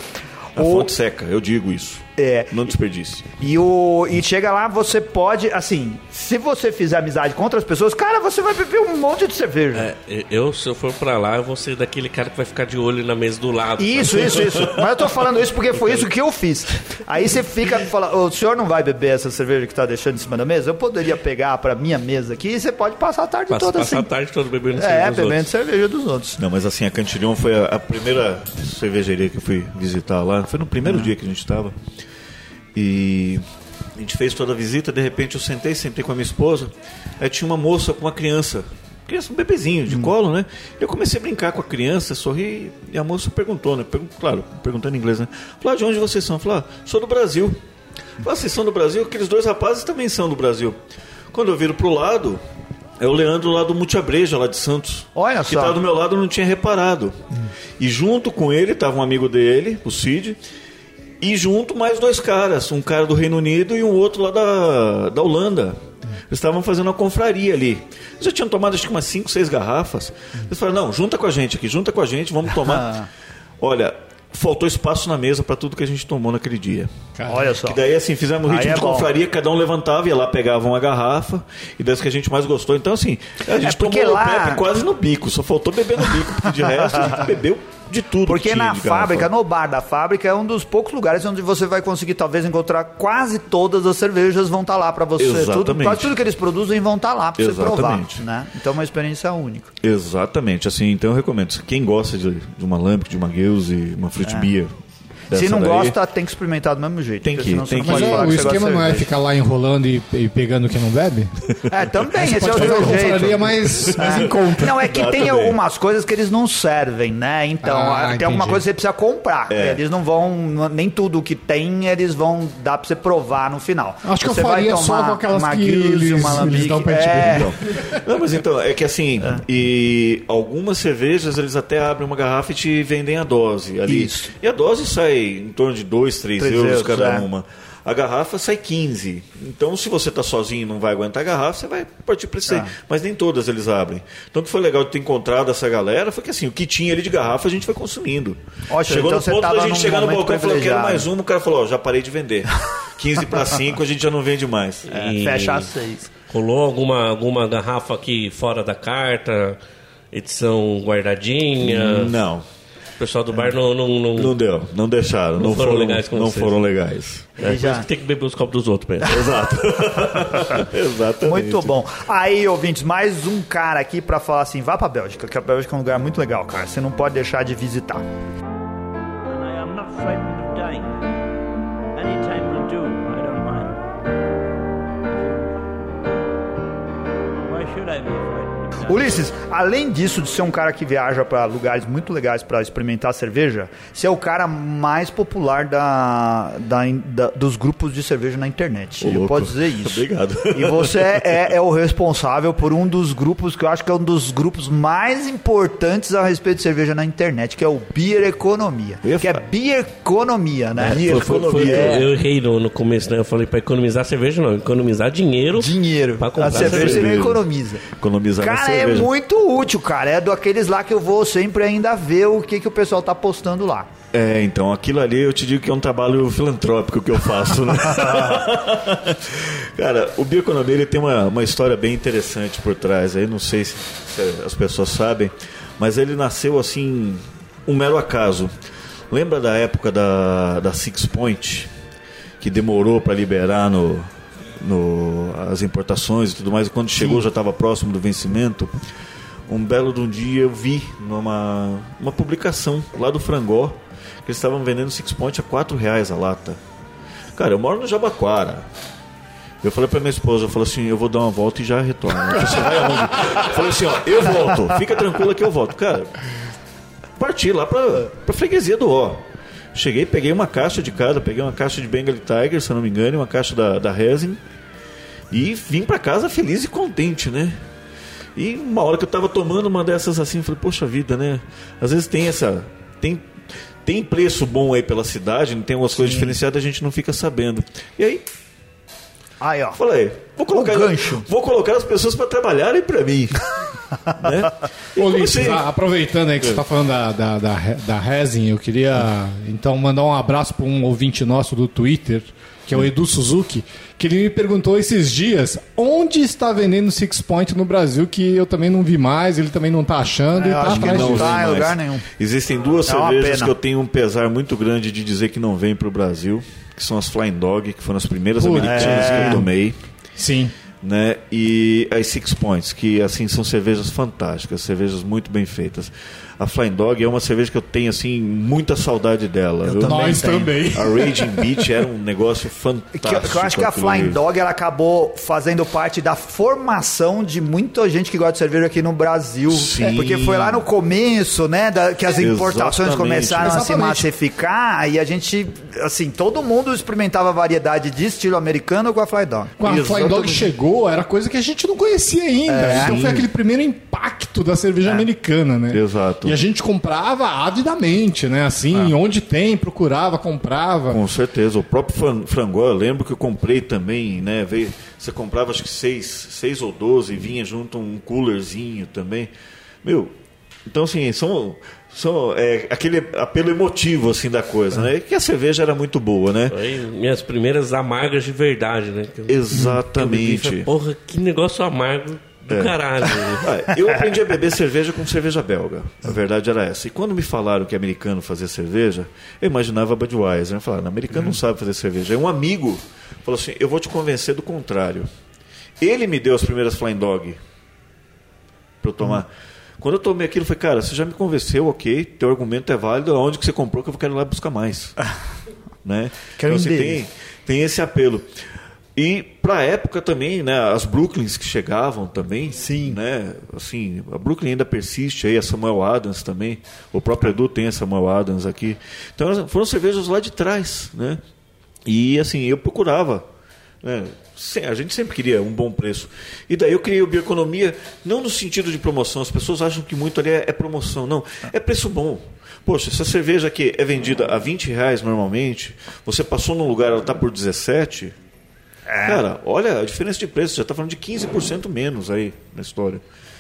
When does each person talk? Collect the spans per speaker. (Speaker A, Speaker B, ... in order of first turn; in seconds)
Speaker A: 0.6-0.9, 2.2-2.5, 3.4-9.9, 13.8-24.1, 24.8-26.4, 55.1-55.8, 72.6-73.1, 77.3-77.8, 78.5-79.1, 83.6-84.6, 86.5-87.3, 88.3-99.7, 104.2-104.5, 105.3-109.1, 111.7-127.5, 133.9-134.3, 136.4-137.3, 148.7-151.1, 154.9-156.1, 167.4-167.9, 171.2-178.1, 188.8-212.1, 215.6-217.8, 218.4-223.9, 286.0-286.4, 289.4-289.8, 290.5-291.3, 310.3-312.1, 312.9-313.5, 318.6-319.4, 329.6-330.8, 333.0-350.4, 352.5-353.2, 406.4-407.0, 412.6-413.0, 438.9-439.2
Speaker B: 0.6-3.3, 26.4-31.8, 32.7-33.4, 34.0-47.6, 48.2-50.8, 51.3-52.4, 53.0-57.2, 57.8-60.4, 61.2-72.9, 73.6-76.9, 77.6-89.3, 95.2-96.1, 97.4-98.2, 99.8-104.7, 105.3-106.0, 107.2-108.7, 112.6-113.2, 113.7-115.6, 119.5-119.8, 127.3-154.9, 161.6-162.5, 164.2-167.4, 169.0-171.8, 199.0-201.5, 209.0-209.4, 210.8-212.1, 216.4-219.1, 224.1-238.5, 239.1-241.7, 242.4-248.8, 249.5-256.6, 257.4-258.7, 259.6-266.4, 267.2-274.4, 275.3-277.6, 278.4-283.3, 283.8-288.2, 289.8-293.4, 294.2-295.7, 310.6-319.8, 320.8-334.2, 339.5-340.7, 342.2-343.6, 349.6-350.4, 352.7-353.2, 355.7-356.4, 360.9-369.3, 369.8-370.1, 370.7-376.6, 379.3-380.7, 382.5-395.1, 395.8-397.4, 398.8-405.0, 405.8-408.3, 409.0-421.2, 421.9-423.3, 423.8-438.1, 439.0-443.0
Speaker C: 9.7-14.8, 23.5-25.4, 154.9-155.7, 156.3-159.6, 160.1-162.2, 163.0-164.3, 165.4-166.5, 167.4-169.4, 210.8-217.3, 376.5-383.5
Speaker D: 77.2-77.4, 107.8-111.3, 112.0-114.7, 117.6-118.6, 124.0-127.5, 295.0-311.4, 318.4-319.5, 320.2-320.5, 329.8-331.6, 343.4-344.1, 349.6-361.0
Speaker E: 179.3-181.0, 181.9-183.8, 185.1-185.5, 187.4-189.0